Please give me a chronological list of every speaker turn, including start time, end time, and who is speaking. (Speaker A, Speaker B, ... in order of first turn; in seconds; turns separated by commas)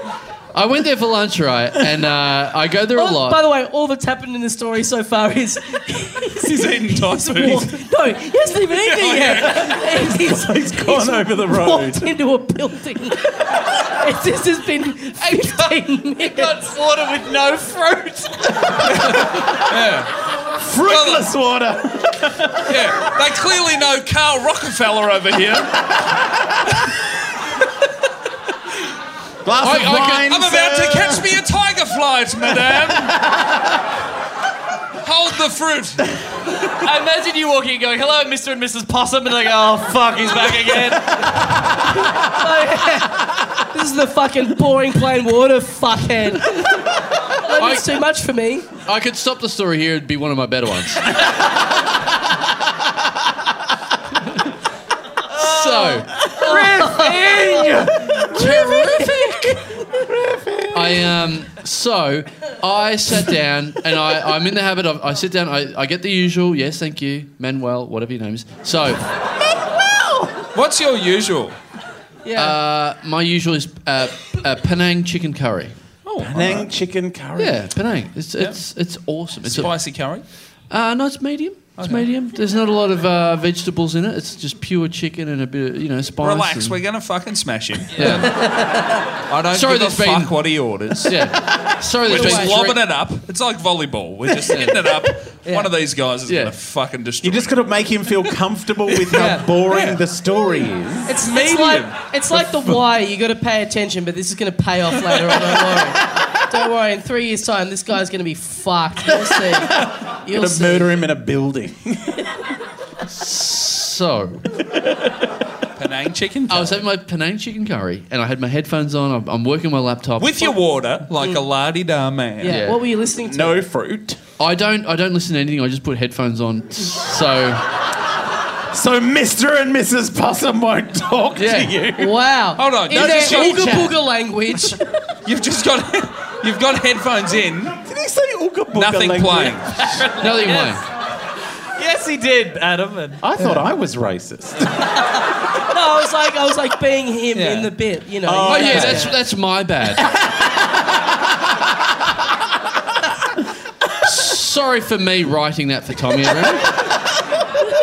Speaker A: 0.5-3.4, Speaker B: 2.9-16.6, Speaker C: 6.4-7.8, Speaker C: 8.6-9.9, Speaker D: 10.1-12.1, Speaker E: 16.1-18.9, Speaker D: 18.9-19.6, Speaker C: 19.7-20.1, Speaker D: 20.6-22.7, Speaker C: 20.8-21.3, Speaker C: 22.7-25.8, Speaker D: 29.4-31.3, Speaker A: 29.6-30.3, Speaker C: 30.2-33.1, Speaker C: 35.0-36.1, Speaker E: 36.7-41.6, Speaker B: 42.2-46.8, Speaker B: 47.4-48.7, Speaker A: 47.5-48.0, Speaker A: 48.8-51.1, Speaker A: 55.3-56.1, Speaker E: 55.3-57.8, Speaker B: 56.4-57.6, Speaker D: 56.4-58.7, Speaker B: 58.3-59.6, Speaker A: 58.4-59.2, Speaker D: 59.8-61.1, Speaker A: 60.7-69.0, Speaker C: 70.5-71.6, Speaker B: 72.2-72.6, Speaker A: 72.3-75.8, Speaker C: 76.0-76.7, Speaker D: 76.2-77.6, Speaker A: 77.3-80.1, Speaker C: 79.4-80.2, Speaker A: 80.7-86.8, Speaker C: 81.8-82.0, Speaker C: 86.2-88.6, Speaker A: 87.9-88.3, Speaker B: 88.2-89.0, Speaker C: 89.3-91.2, Speaker A: 89.5-92.8, Speaker B: 92.0-92.5, Speaker C: 92.0-98.0, Speaker A: 94.5-94.8, Speaker B: 95.4-95.7, Speaker A: 96.2-96.5, Speaker D: 97.2-101.2, Speaker B: 99.1-99.5, Speaker C: 99.7-100.0, Speaker B: 101.0-111.0, Speaker C: 101.2-102.8, Speaker D: 110.3-112.3, Speaker A: 113.1-114.5, Speaker C: 115.8-116.8, Speaker A: 116.5-120.6, Speaker C: 120.2-122.7, Speaker B: 122.4-123.6, Speaker A: 122.4-122.8, Speaker D: 123.2-124.2, Speaker A: 124.4-127.7, Speaker D: 128.7-132.2, Speaker A: 131.3-131.8, Speaker B: 132.0-134.9, Speaker C: 132.6-134.0, Speaker D: 133.0-133.9, Speaker C: 135.2-137.8, Speaker D: 137.8-139.6, Speaker C: 138.7-139.8, Speaker E: 139.7-140.8, Speaker A: 140.1-140.8, Speaker E: 141.8-143.2, Speaker D: 143.2-144.7, Speaker B: 145.7-149.2, Speaker C: 147.3-147.7, Speaker D: 148.2-149.2, Speaker A: 148.4-150.1, Speaker A: 154.0-156.9